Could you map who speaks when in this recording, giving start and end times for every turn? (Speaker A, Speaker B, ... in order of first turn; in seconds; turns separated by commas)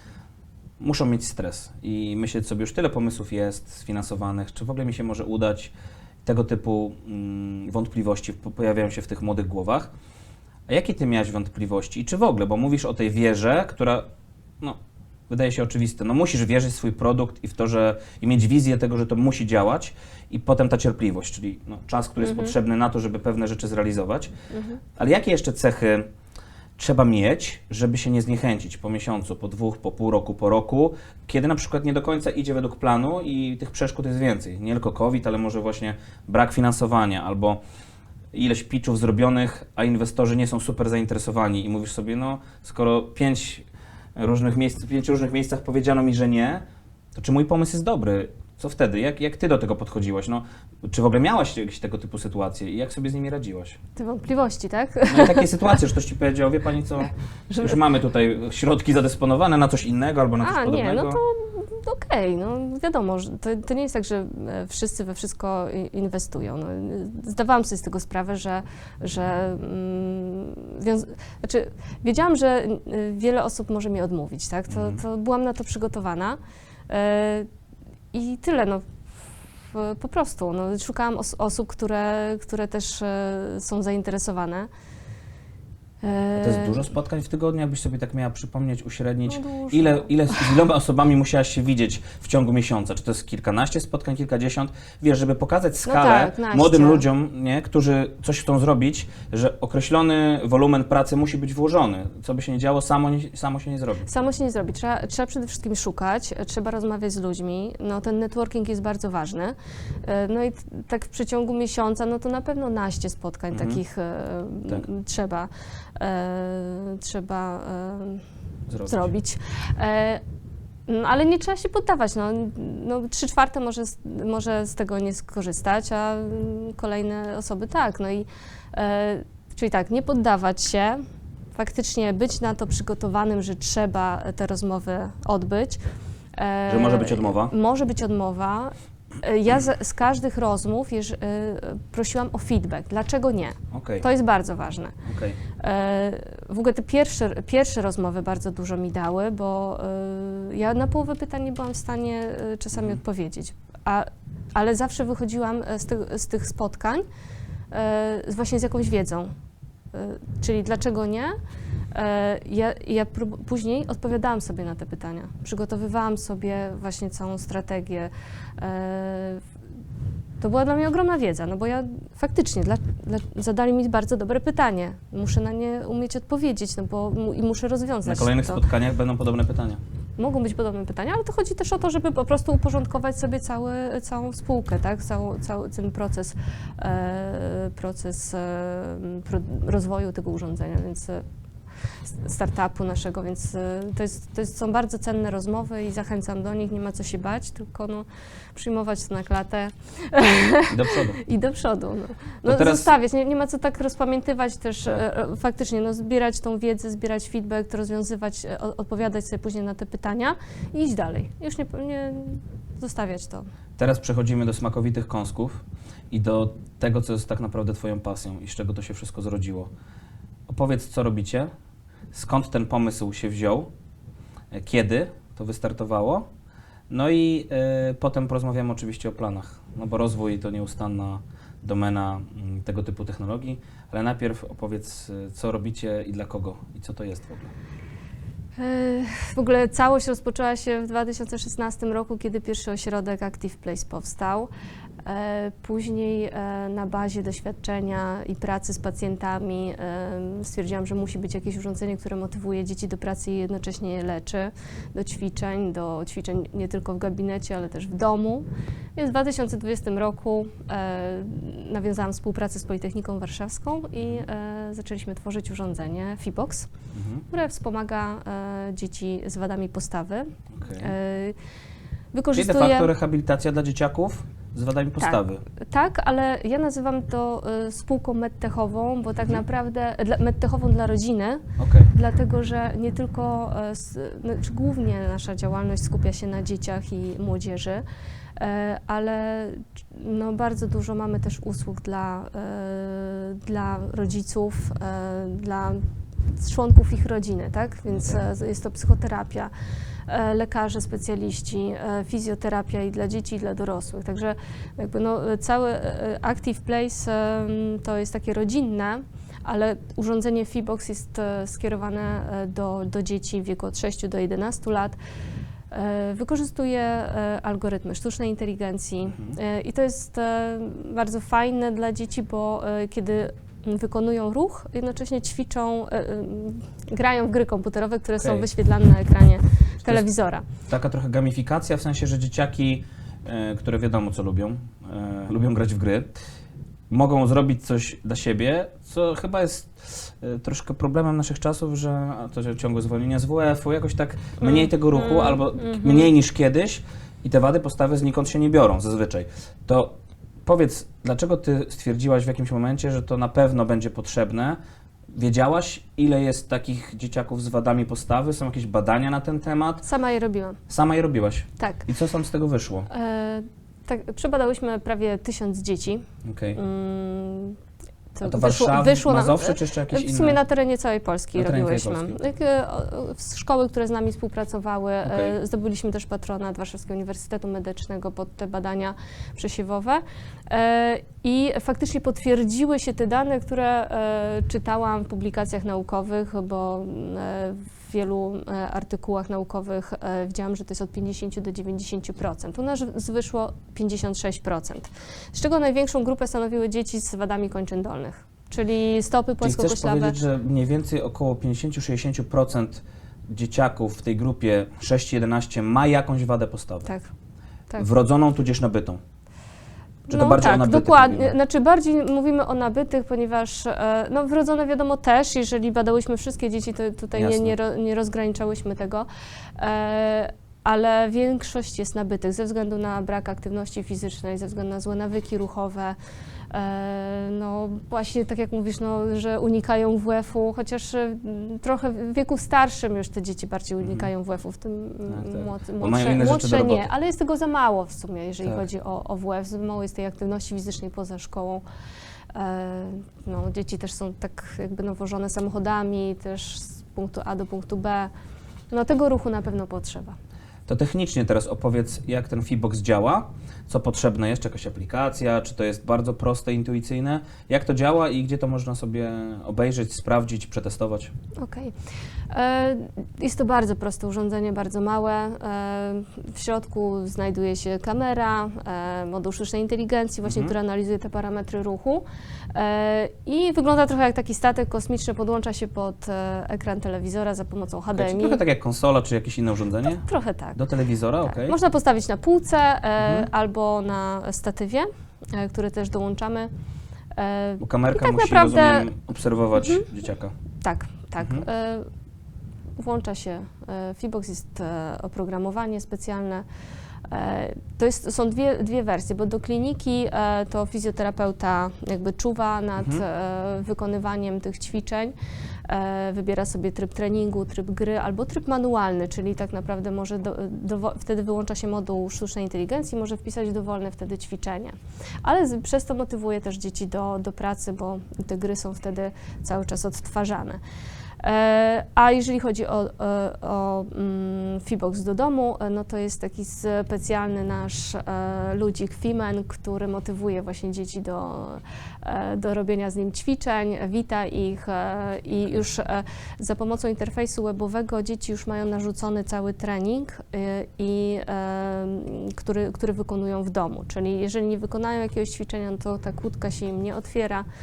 Speaker A: 0.8-5.7, Speaker A: 6.2-9.9, Speaker A: 10.7-14.1, Speaker A: 15.3-24.3, Speaker B: 22.2-22.5, Speaker B: 24.5-24.8, Speaker A: 24.9-26.1, Speaker A: 26.8-37.6, Speaker A: 38.3-46.6, Speaker A: 47.1-53.8, Speaker B: 54.0-55.8, Speaker A: 55.1-61.2, Speaker B: 57.5-57.8, Speaker B: 60.4-77.5, Speaker A: 74.7-75.0, Speaker B: 78.1-78.9, Speaker B: 79.7-84.7, Speaker B: 86.0-86.8, Speaker A: 86.3-104.1, Speaker B: 89.3-90.5, Speaker B: 95.8-97.0, Speaker B: 104.0-118.2, Speaker A: 113.5-113.8, Speaker A: 118.7-119.1, Speaker B: 118.8-120.2, Speaker B: 120.9-131.0, Speaker B: 131.5-135.8, Speaker B: 136.3-144.9, Speaker A: 136.7-137.5, Speaker A: 143.7-144.1, Speaker A: 145.1-145.4, Speaker B: 145.5-157.1, Speaker B: 157.7-159.3, Speaker B: 159.9-161.3, Speaker B: 161.9-169.4, Speaker B: 170.4-178.6, Speaker A: 178.0-179.8, Speaker B: 180.2-191.2, Speaker B: 192.0-213.4, Speaker A: 200.7-201.2, Speaker A: 202.4-202.9, Speaker A: 213.8-219.7, Speaker A: 220.5-221.5, Speaker A: 222.1-223.7, Speaker A: 224.5-226.3, Speaker A: 226.9-237.5, Speaker B: 238.6-244.5, Speaker B: 245.0-266.7, Speaker A: 266.9-267.2, Speaker B: 267.3-271.4, Speaker A: 270.5-270.9, Speaker B: 272.1-272.9, Speaker A: 272.3-275.4, Speaker B: 275.0-287.8, Speaker A: 281.6-281.9, Speaker B: 288.4-299.5, Speaker B: 300.1-315.0, Speaker B: 315.7-330.4, Speaker A: 328.2-328.5, Speaker A: 330.7-336.1, Speaker A: 336.9-354.6, Speaker B: 344.4-346.1, Speaker A: 355.1-359.9, Speaker B: 359.8-360.6, Speaker A: 360.7-362.9, Speaker B: 361.6-361.9, Speaker B: 362.9-367.6, Speaker A: 366.2-366.6, Speaker B: 368.1-400.1, Speaker A: 368.2-370.4, Speaker A: 371.3-372.2, Speaker A: 375.0-375.3, Speaker A: 399.4-406.9, Speaker A: 407.8-409.0, Speaker B: 410.1-419.1, Speaker A: 410.1-411.3, Speaker A: 417.1-417.5, Speaker B: 419.6-425.9, Speaker B: 426.5-441.6, Speaker A: 433.8-434.1, Speaker A: 435.1-436.9, Speaker B: 442.3-448.1, Speaker B: 448.7-450.2, Speaker A: 450.7-461.1, Speaker B: 461.4-461.7, Speaker B: 462.3-478.4, Speaker A: 470.2-470.5, Speaker A: 477.9-480.0, Speaker B: 479.8-480.6, Speaker A: 480.6-481.6, Speaker B: 481.2-486.5, Speaker A: 483.0-483.3, Speaker B: 487.1-488.9, Speaker A: 487.6-490.3, Speaker B: 489.6-489.8, Speaker B: 490.6-491.9, Speaker A: 491.2-491.4, Speaker B: 492.8-496.4, Speaker B: 497.1-505.1, Speaker B: 505.7-520.6, Speaker B: 521.2-547.5